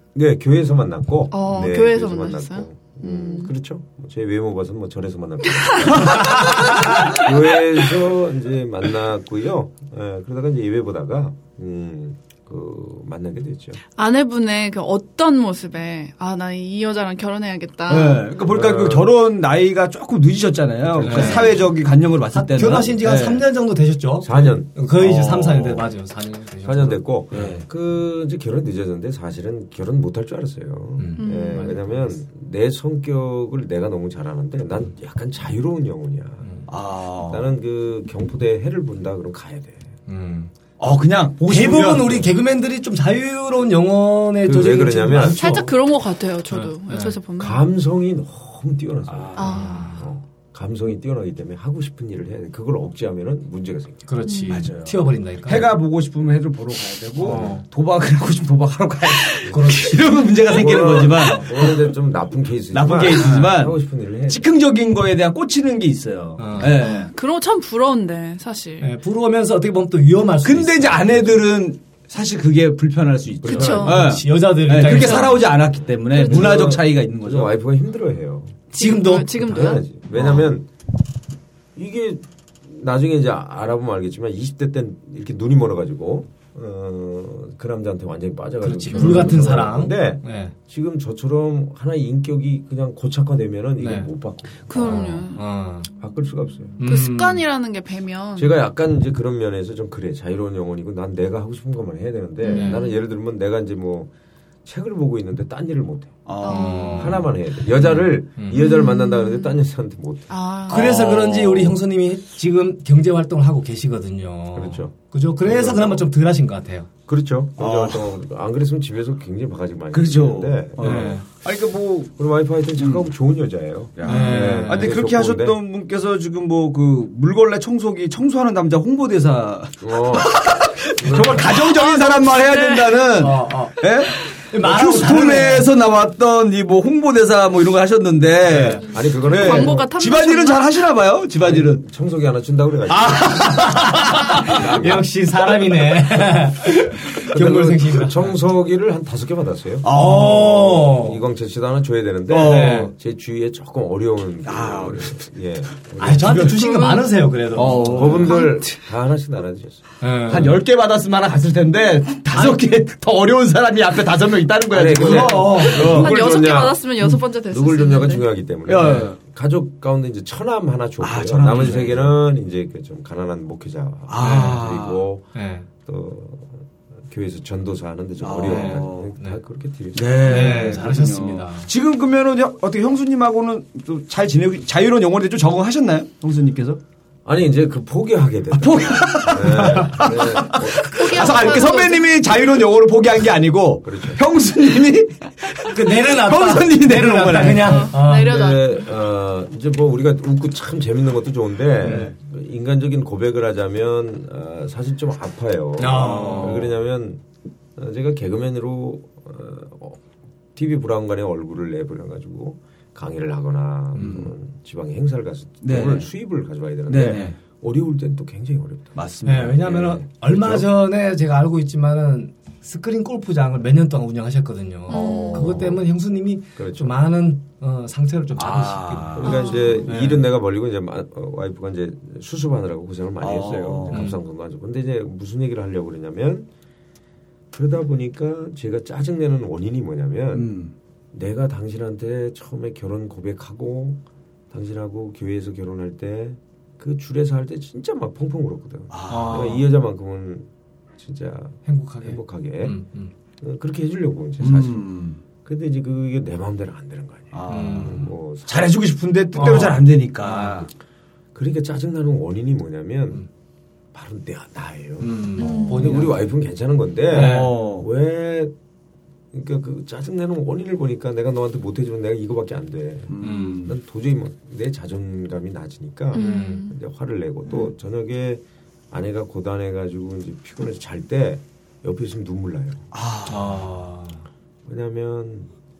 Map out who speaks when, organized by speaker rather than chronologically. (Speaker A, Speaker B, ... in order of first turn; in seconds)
Speaker A: 0.1-13.8, 18.4-19.1, 20.9-21.6, 24.2-24.8, 26.6-36.5, 37.2-39.9, 44.4-45.4, 47.4-54.0, 57.2-57.6, 60.5-64.5, 73.4-74.2, 76.2-78.6, 79.3-80.6, 81.7-95.2, 96.0-96.9, 98.3-104.1, 104.6-106.2, 106.9-110.3, 114.5-116.0, 117.1-121.2, 122.2-125.6, 129.8-130.4, 131.0-131.6, 138.8-139.9, 141.4-143.6, 144.2-145.1, 147.2-156.5, 157.8-159.8, 164.7-175.2, 175.8-180.8, 187.2-191.7, 193.8-194.2, 198.1-207.2, 207.8-210.0, 210.6-219.0, 219.6-220.7, 226.6-226.9, 229.1-236.5, 237.5-240.5, 241.1-244.0, 244.5-250.5, 251.0-252.8, 253.4-254.9, 255.4-258.8, 261.3-263.2, 263.9-268.5, 269.3-282.8, 284.6-285.5
Speaker B: 1.3-3.5, 5.8-7.3, 13.9-18.2, 31.2-31.8, 45.3-47.6, 49.4-49.9, 54.2-54.6, 66.6-68.9, 73.5-74.2, 74.9-75.4, 76.1-76.6, 78.7-80.4, 94.7-95.5, 96.8-98.6, 102.4-103.0, 106.4-107.2, 108.5-109.6, 110.3-110.8, 124.0-124.3, 131.7-133.0, 139.2-140.7, 156.5-157.3, 158.3-158.6, 165.7-168.2, 190.9-192.1, 197.4-198.8, 224.9-225.6, 229.2-229.8, 265.4-266.0, 276.1-276.7
Speaker C: 17.9-23.4, 25.0-25.8, 27.3-27.6, 36.7-37.5, 40.8-42.3, 49.1-49.6, 54.5-61.8, 62.7-63.8, 64.3-67.1, 70.4-77.5, 88.9-89.3, 106.2-107.1, 110.7-111.8, 117.6-118.1, 119.9-122.1, 122.8-123.1, 124.0-141.8, 142.9-144.6, 149.8-151.0, 152.3-152.9, 154.4-155.2, 156.1-156.6, 157.5-158.6, 160.3-166.2, 168.7-169.2, 171.0-172.1, 174.1-175.0, 178.2-179.1, 179.9-186.8, 188.5-197.9, 201.8-202.1, 205.9-206.7, 213.9-214.3, 215.6-216.1, 216.9-217.3, 218.9-219.8, 224.9-225.6, 228.4-229.5, 233.2-234.1, 240.3-240.7, 248.9-249.5, 254.4-255.2, 257.3-260.7, 267.1-267.9, 273.1-273.8, 282.9-283.7
Speaker D: 21.0-21.6, 22.3-27.5, 31.0-31.7, 40.1-40.5, 41.5-45.7, 46.5-47.1, 49.4-50.0, 54.1-55.7, 57.2-57.6, 59.5-60.2, 63.2-63.5, 66.4-66.8, 68.8-71.4, 73.9-75.5, 78.8-79.4, 80.2-80.5, 88.6-90.5, 93.8-94.1, 94.8-95.9, 96.8-97.5, 102.4-102.8, 106.5-107.3, 107.8-108.6, 110.7-116.9, 120.8-121.2, 124.0-124.9, 133.1-133.8, 134.5-135.7, 138.5-138.8, 143.2-148.3, 149.9-151.2, 152.4-152.9, 156.0-158.4, 160.0-160.6, 162.3-162.6, 164.9-165.9, 174.2-174.6, 175.3-175.7, 178.4-179.4, 180.2-181.7, 189.4-189.9, 195.7-198.4, 201.8-202.1, 205.8-206.7, 219.2-230.2, 233.9-234.2, 249.1-249.7, 251.7-253.1, 257.5-258.1, 259.4-260.6, 265.0-266.2, 267.1-267.6, 273.2-273.7, 276.1-276.6, 283.3-284.2